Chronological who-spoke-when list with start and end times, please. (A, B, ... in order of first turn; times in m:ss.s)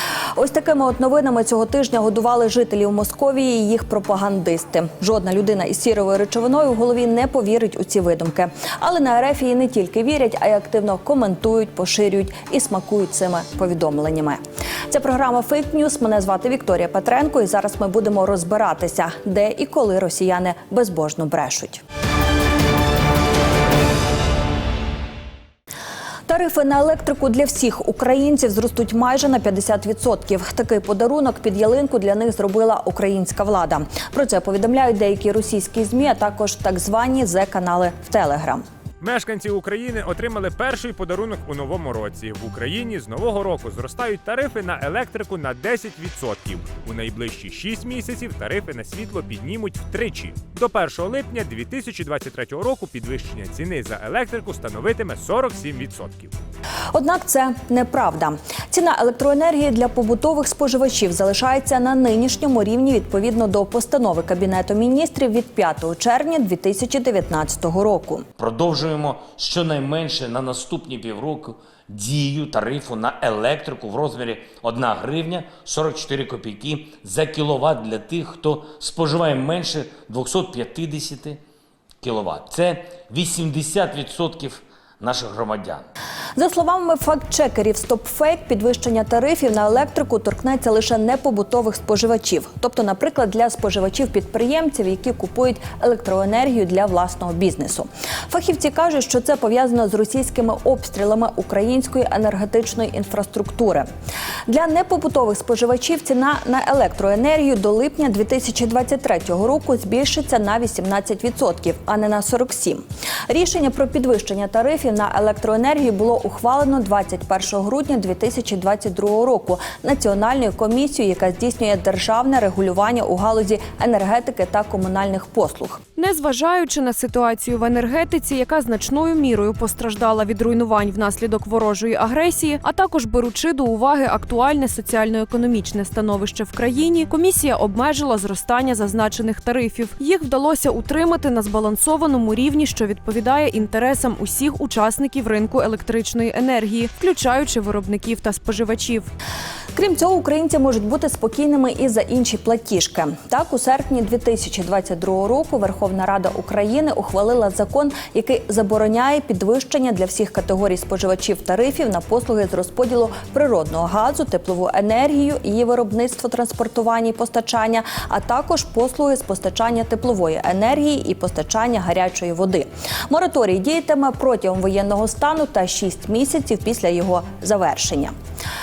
0:00.4-0:21.8 A
0:26.3-0:38.6 A
0:39.0-0:56.3 B
0:56.9-1:08.2 A
1:08.4-1:21.4 C
1:22.0-1:25.8 C
1:26.4-1:43.9 A
1:44.5-2:05.8 A
2:06.0-2:29.1 D
2:29.8-2:58.1 A